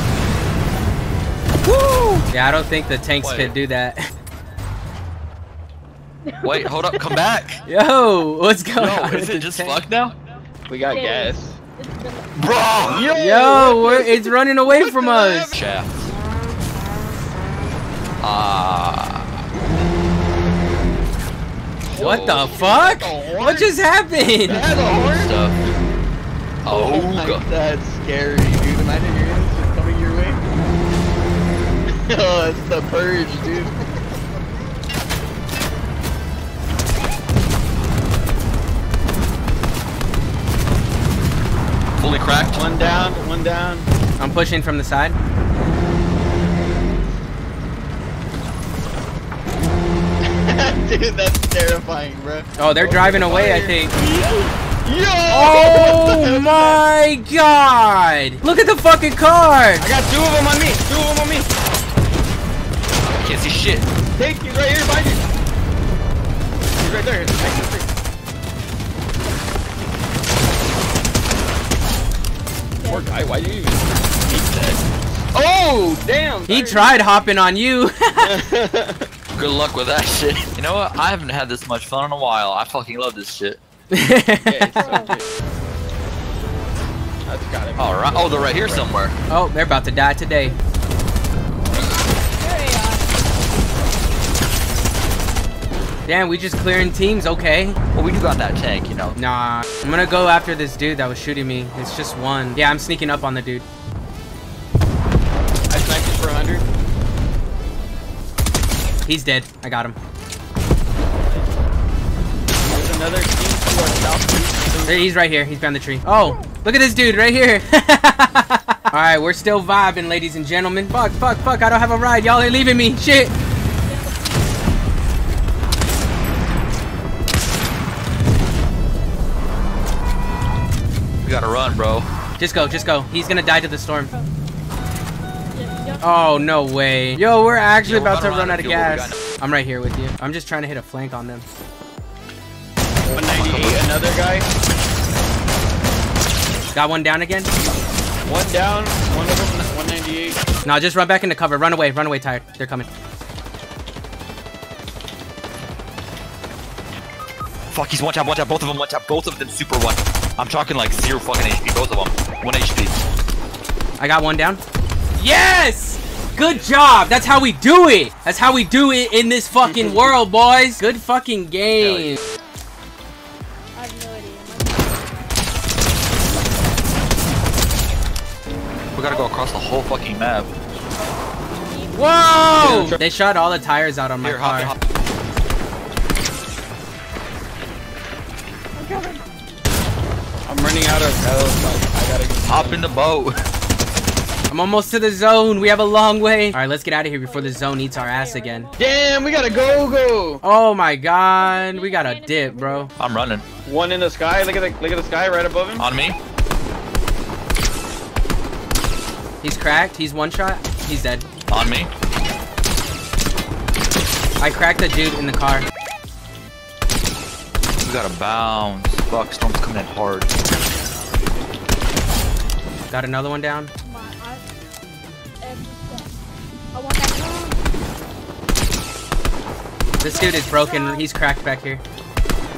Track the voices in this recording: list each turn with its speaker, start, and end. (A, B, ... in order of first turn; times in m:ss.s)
0:01.6-0:02.2 A
0:02.3-0:04.1 B
0:03.2-0:03.6 A
0:06.3-0:07.2 C
0:06.4-0:07.6 A
0:07.7-0:09.8 B
0:08.8-0:10.2 A
0:10.7-0:11.6 D
0:10.9-0:12.3 C
0:12.4-0:13.1 A
0:12.9-0:14.1 D
0:13.1-0:15.5 B
0:15.1-0:15.4 D
0:15.5-0:16.1 A
0:18.2-0:19.3 A
0:21.9-0:22.5 A
0:22.0-0:24.7 B
0:22.0-0:23.8 D
0:24.4-0:25.5 D
0:25.0-0:25.6 A
0:26.6-0:27.4 A
0:26.7-0:30.4 D
0:32.0-0:33.7 D
0:42.0-0:42.6 A
0:42.5-0:43.9 D
0:44.2-0:45.2 B
0:50.2-0:56.8 D
0:52.6-0:54.0 B
0:55.3-0:59.9 B
0:59.8-1:01.5 D
1:03.1-1:03.9 A
1:04.2-1:05.2 D
1:06.8-1:07.9 D
1:12.8-1:13.1 C
1:12.9-1:17.3 D
1:16.5-1:18.4 B
1:18.2-1:19.1 D
1:19.4-1:23.6 A
1:23.9-1:25.1 B
1:24.4-1:25.3 D
1:24.8-1:25.2 C
1:27.2-1:28.9 D
1:27.8-1:29.2 A
1:29.3-1:30.6 B
1:32.4-1:33.2 C
1:36.1-1:37.8 B
1:37.9-1:39.2 A
1:39.2-1:43.6 B
1:45.4-1:46.6 D
1:49.1-1:50.0 B
1:51.3-1:51.6 D
1:52.6-1:55.1 D
1:54.9-2:03.3 B
2:03.8-2:04.7 C
2:11.2-2:12.1 A
2:12.4-2:14.1 B
2:12.6-2:12.9 C
2:15.5-2:16.2 C
2:16.0-2:21.4 B
2:17.8-2:19.2 A
2:23.1-2:23.8 A
2:23.1-2:24.5 D
2:26.7-2:27.5 B
2:28.2-2:30.4 D
2:30.6-2:32.9 B
2:37.7-2:43.0 A
2:44.0-2:44.6 B
2:45.2-2:52.2 B
2:51.8-2:52.1 A
2:53.8-2:55.0 C
2:59.0-3:00.5 A
3:01.6-3:02.6 C
3:02.0-3:04.7 B
3:02.6-3:03.0 D
3:03.3-3:03.8 C
3:04.2-3:04.7 A
3:08.8-3:09.2 C
3:10.5-3:12.9 D
3:12.5-3:13.4 A
3:14.5-3:18.7 B
3:17.2-3:20.0 C
3:18.8-3:20.4 D
3:20.4-3:22.9 B
3:21.4-3:22.9 C
3:23.0-3:23.4 A
3:23.6-3:25.8 D
3:25.8-3:26.2 A
3:29.4-3:31.3 B
3:31.5-3:31.9 A
3:34.4-3:35.7 B
3:37.8-3:40.3 A
3:42.9-3:43.7 B
3:43.8-3:44.4 C
3:45.4-3:46.1 C
3:46.7-3:47.6 C
3:50.0-3:51.1 C
3:50.0-3:51.8 B